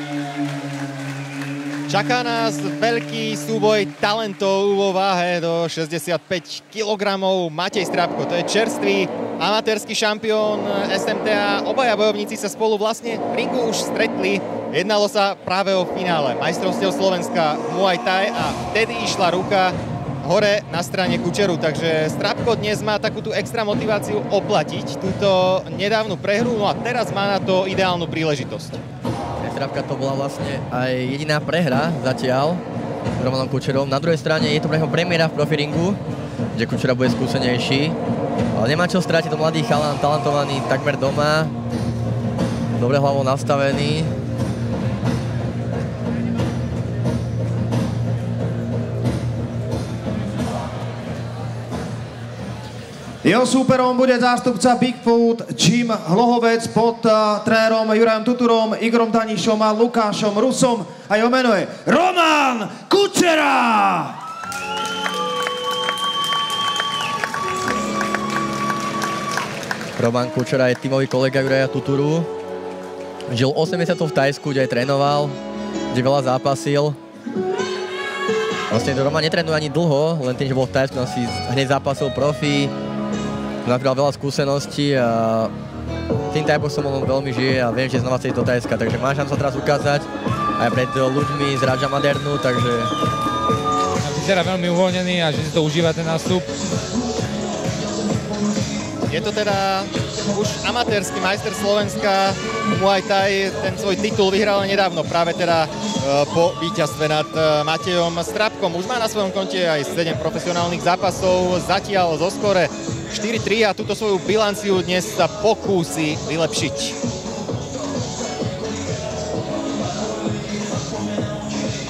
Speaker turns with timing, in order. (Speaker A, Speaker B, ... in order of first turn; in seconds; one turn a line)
Speaker A: 1.9-28.8
Speaker B: 29.4-32.6
Speaker B: 33.2-36.0
Speaker B: 36.5-38.0
Speaker B: 38.5-41.5
Speaker B: 42.8-44.1
Speaker C: 53.2-64.2
Speaker B: 70.0-72.3
Speaker B: 73.3-75.4
Speaker B: 75.9-77.0
Speaker B: 78.7-82.7
Speaker B: 83.7-85.5
Speaker B: 86.3-92.9
Speaker D: 94.0-96.5
Speaker A: 99.1-117.0